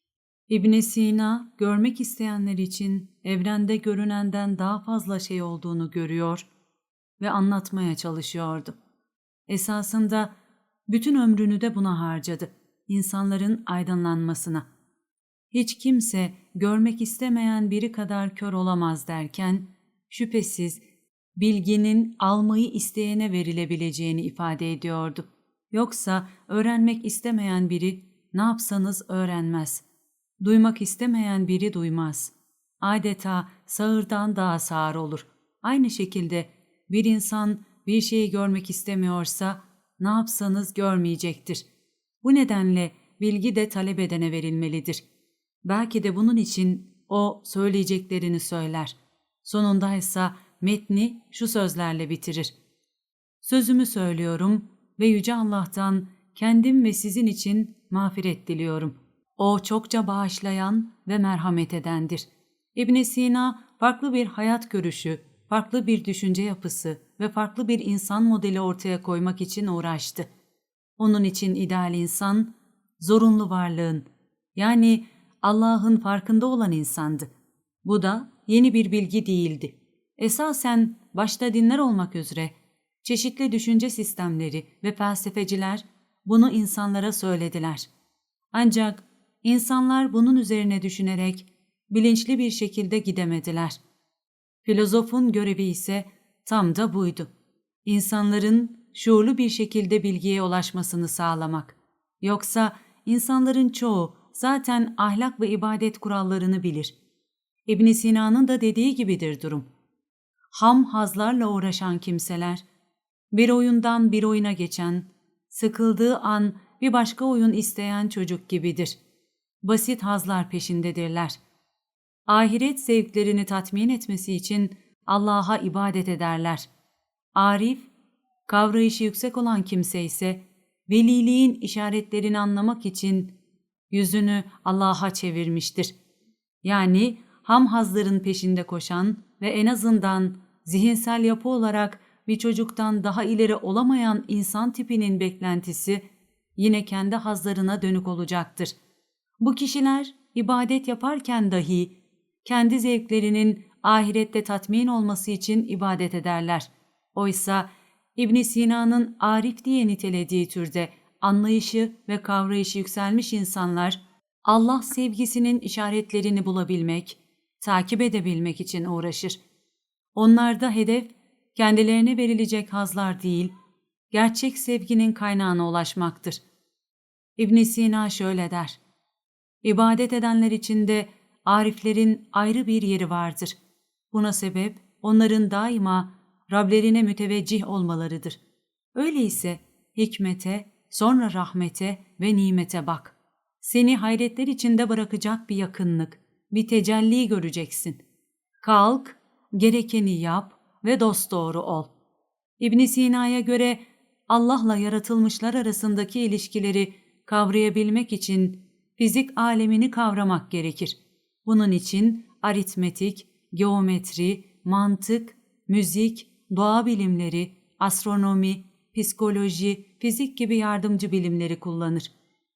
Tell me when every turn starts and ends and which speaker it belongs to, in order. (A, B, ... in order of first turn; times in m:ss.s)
0:00.5-0:06.4 A
0:07.2-0:08.7 A
0:09.5-0:10.3 A
0:10.9-0:14.6 A
0:15.5-0:20.8 A
0:21.4-0:29.8 A
0:30.4-0:41.6 A
0:42.2-0:45.0 A
0:45.6-0:52.5 A
0:53.4-1:10.3 A
1:11.0-1:17.3 A
1:17.8-1:27.9 A
1:28.5-1:33.8 A
1:34.6-1:37.3 A
1:37.8-1:46.9 A
1:47.7-1:49.7 A
1:50.5-1:52.6 A
1:53.3-1:59.0 A
1:59.6-2:01.4 A
2:02.3-2:06.7 A
2:07.3-2:07.9 A
2:08.5-2:13.3 A
2:13.9-2:15.9 A
2:16.6-2:26.0 A
2:26.6-2:28.7 A
2:29.4-2:49.4 A
2:50.1-2:53.5 A
2:54.1-2:56.4 A
2:57.4-2:58.8 A
2:59.6-3:03.6 A
3:04.1-3:08.4 A
3:08.9-3:18.0 A
3:18.6-3:21.9 A
3:22.6-3:42.1 A